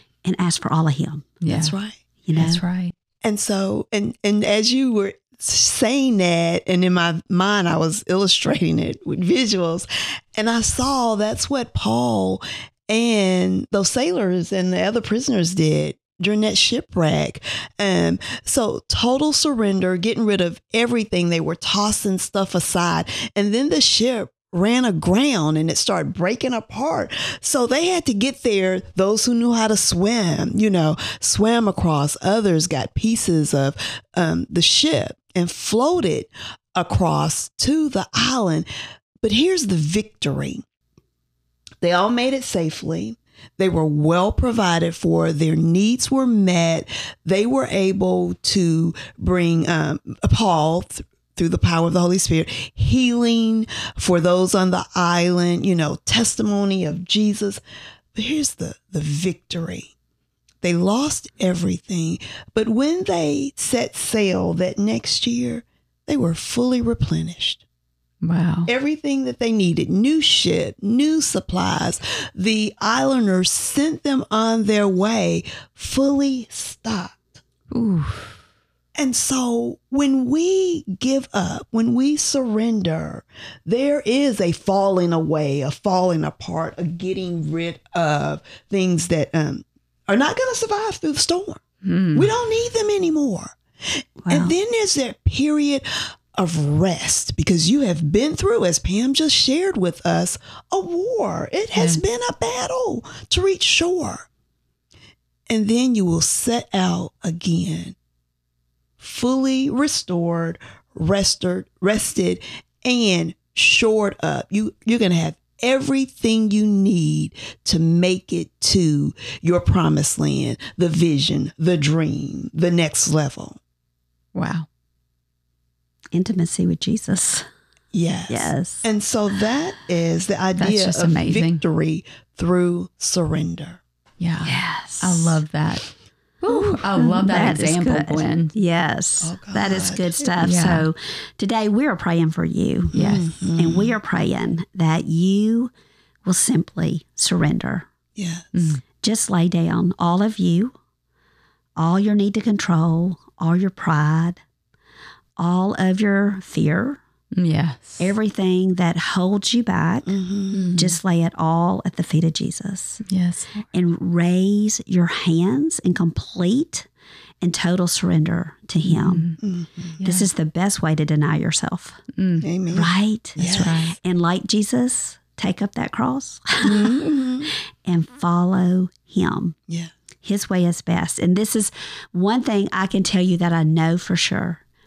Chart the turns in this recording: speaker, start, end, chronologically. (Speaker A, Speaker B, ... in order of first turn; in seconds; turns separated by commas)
Speaker A: 0.2-1.4, Speaker B: 1.4-1.7, Speaker C: 1.5-2.0, Speaker A: 2.2-2.6, Speaker B: 2.3-2.9, Speaker C: 3.2-38.7, Speaker C: 39.2-40.6, Speaker C: 41.8-57.6, Speaker C: 58.1-59.9, Speaker C: 60.6-67.6, Speaker B: 68.2-68.7, Speaker C: 68.7-77.4, Speaker B: 77.7-78.4, Speaker C: 79.0-91.6, Speaker B: 91.8-92.3, Speaker C: 92.1-104.3, Speaker A: 94.2-94.5, Speaker B: 101.8-102.0, Speaker C: 105.5-108.0, Speaker C: 109.0-123.6, Speaker B: 124.3-124.7, Speaker A: 126.1-127.5, Speaker C: 127.9-133.8, Speaker A: 128.3-128.8, Speaker B: 130.6-131.6, Speaker B: 134.2-135.9, Speaker A: 134.4-135.4, Speaker B: 136.4-138.5, Speaker A: 136.5-142.9, Speaker C: 139.2-140.4, Speaker B: 140.4-140.9, Speaker C: 142.9-143.9, Speaker B: 142.9-143.3, Speaker A: 143.5-145.7, Speaker A: 146.2-147.9, Speaker C: 148.2-148.5, Speaker B: 148.5-148.8, Speaker A: 149.0-150.8, Speaker A: 151.8-154.4, Speaker A: 155.4-157.0, Speaker B: 157.3-158.1, Speaker A: 158.0-160.2, Speaker C: 160.1-160.7, Speaker B: 160.5-161.0, Speaker A: 160.8-163.0, Speaker B: 163.1-163.7, Speaker A: 163.7-166.9, Speaker A: 167.4-169.3, Speaker B: 168.8-169.4, Speaker C: 169.4-170.0, Speaker B: 170.0-170.3, Speaker A: 170.0-172.0, Speaker B: 172.1-172.5, Speaker C: 172.4-173.7, Speaker A: 172.7-177.0, Speaker B: 173.4-174.0, Speaker C: 176.6-177.5, Speaker A: 177.8-179.6, Speaker A: 180.2-184.6